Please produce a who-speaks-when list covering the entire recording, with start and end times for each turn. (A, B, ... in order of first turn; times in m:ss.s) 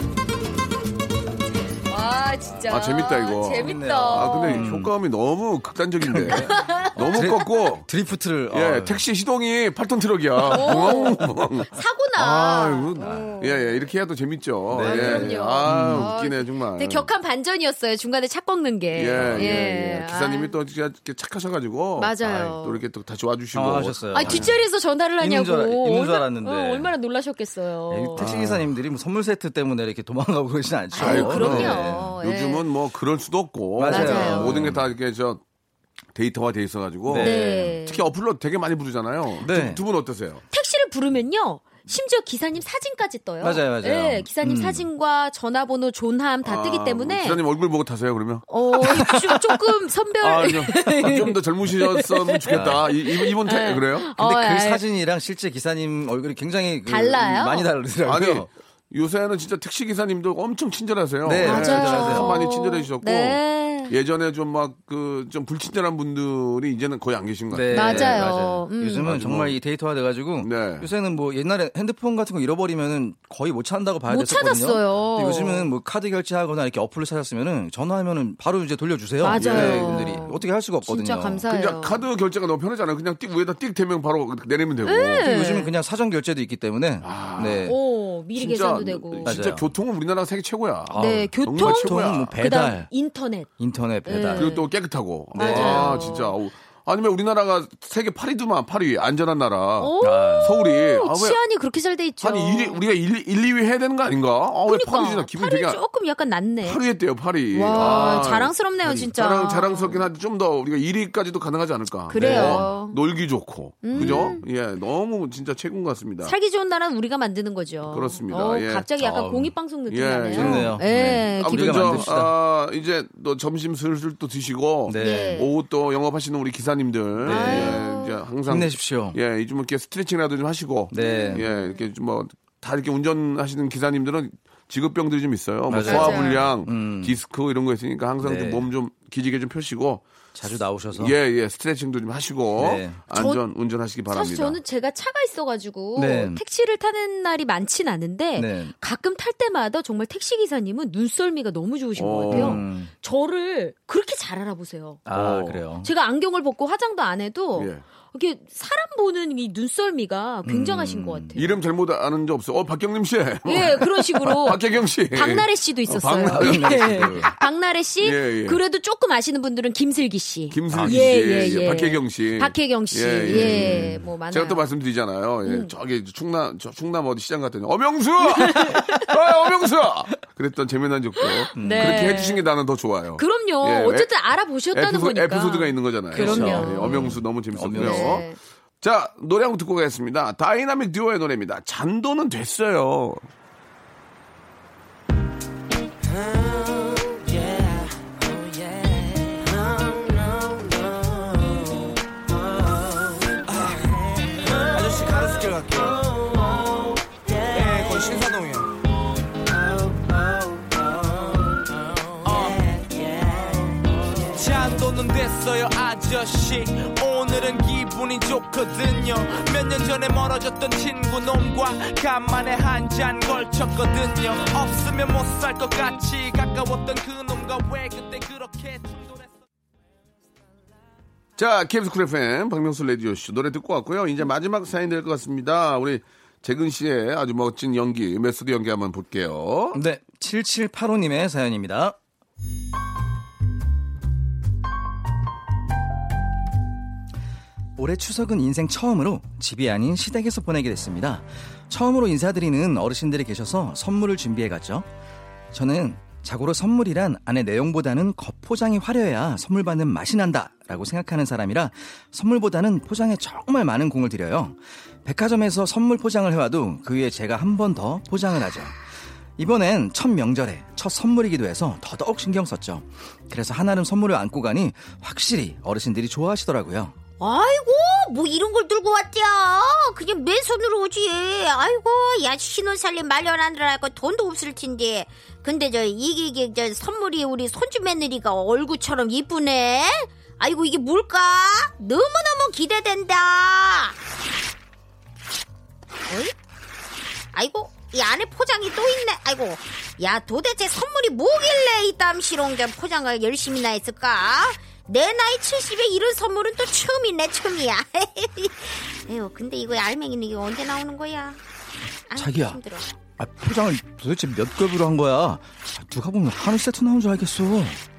0:01.9-0:04.7 A
0:02.6-0:07.9 B
0:03.5-0:04.9 C
0:06.0-0:09.0 C
0:06.3-0:07.6 A
0:08.5-0:17.1 B
0:10.5-0:13.6 A
0:10.6-0:10.9 C
0:13.0-0:13.3 C
0:14.7-0:16.1 C
0:14.8-0:20.5 A
0:18.9-0:24.5 B
0:19.2-0:19.5 C
0:22.0-0:22.8 A
0:23.5-0:24.6 C
0:24.1-0:28.3 A
0:25.2-0:26.9 C
0:27.9-0:32.2 C
0:28.1-0:28.7 B
0:30.9-0:32.6 A
0:31.0-0:35.4 B
0:33.8-0:34.8 C
0:33.8-0:34.6 A
0:36.1-0:40.4 B
0:37.1-0:37.8 C
0:37.2-0:38.0 A
0:39.4-0:39.8 C
0:40.5-0:47.4 A
0:43.4-0:44.9 C
0:46.4-0:48.5 B
0:48.5-0:54.8 A
0:48.8-0:49.4 C
0:50.2-0:54.1 B
0:52.5-0:52.9 C
0:54.2-0:58.5 C
0:56.9-0:57.7 A
0:58.0-1:08.3 B
1:01.2-1:02.4 C
1:01.4-1:04.0 A
1:07.5-1:21.5 C
1:07.7-1:09.1 A
1:09.0-1:09.6 B
1:10.4-1:10.9 B
1:14.1-1:15.7 A
1:19.2-1:22.0 A
1:19.3-1:20.2 B
1:21.5-1:25.3 B
1:24.8-1:25.7 A
1:25.2-1:27.7 C
1:27.0-1:27.8 B
1:27.6-1:29.4 A
1:28.3-1:32.4 B
1:29.2-1:29.7 C
1:30.9-1:32.9 C
1:30.9-1:33.5 A
1:33.6-1:34.6 C
1:34.0-1:34.7 A
1:34.4-1:41.4 B
1:35.3-1:36.4 A
1:35.4-1:36.0 C
1:39.8-1:42.8 A
1:40.0-1:40.5 C
1:42.2-1:45.8 B
1:44.7-1:46.8 A
1:46.6-1:56.4 B
1:47.5-1:50.0 A
1:47.7-1:48.2 C
1:52.1-1:53.0 A
1:52.1-1:52.7 C
1:53.8-1:54.4 A
1:53.9-1:54.3 C
1:56.2-2:02.1 A
1:57.8-2:20.0 B
1:59.2-1:59.5 C
2:00.3-2:02.3 C
2:04.8-2:05.5 C
2:05.0-2:05.5 A
2:07.2-2:07.8 C
2:07.2-2:08.2 A
2:08.5-2:09.2 C
2:10.9-2:11.5 C
2:11.0-2:11.8 A
2:15.7-2:17.2 C
2:15.8-2:16.4 A
2:18.2-2:18.7 C
2:20.3-2:21.1 C
2:20.9-2:24.6 B
2:22.6-2:23.0 C
2:23.1-2:23.4 A
2:24.1-2:35.0 A
2:26.0-2:26.4 C
2:28.3-2:28.7 C
2:32.0-2:32.6 B
2:32.3-2:32.9 C
2:35.0-2:35.9 C
2:35.1-2:35.6 B
2:35.8-2:41.6 A
2:37.5-2:37.8 B
2:40.4-2:41.5 C
2:41.3-2:47.4 B
2:43.4-2:44.6 A
2:45.1-2:54.6 A
2:46.2-2:47.3 C
2:48.0-2:48.6 B
2:50.5-3:04.1 B
2:50.7-2:51.8 C
2:53.3-2:54.0 C
2:55.4-2:55.7 A
2:58.3-2:59.1 A
3:01.2-3:02.4 A
3:01.5-3:02.2 C
3:03.2-3:07.2 A
3:04.7-3:08.2 B
3:06.1-3:08.2 C
3:07.7-3:08.4 A
3:08.8-3:13.2 B
3:24.7-3:26.0 D
3:27.5-3:28.7 D
3:32.2-3:32.6 D
3:34.3-3:49.3 D
3:51.4-3:59.8 B
3:59.7-4:02.0 C
4:07.8-4:14.9 C
4:15.5-4:36.9 C
4:37.2-4:54.0 E
4:56.1-4:56.3 E
4:57.3-5:11.4 E
5:12.1-5:12.9 E
5:12.2-5:12.6 C
5:13.2-5:17.8 C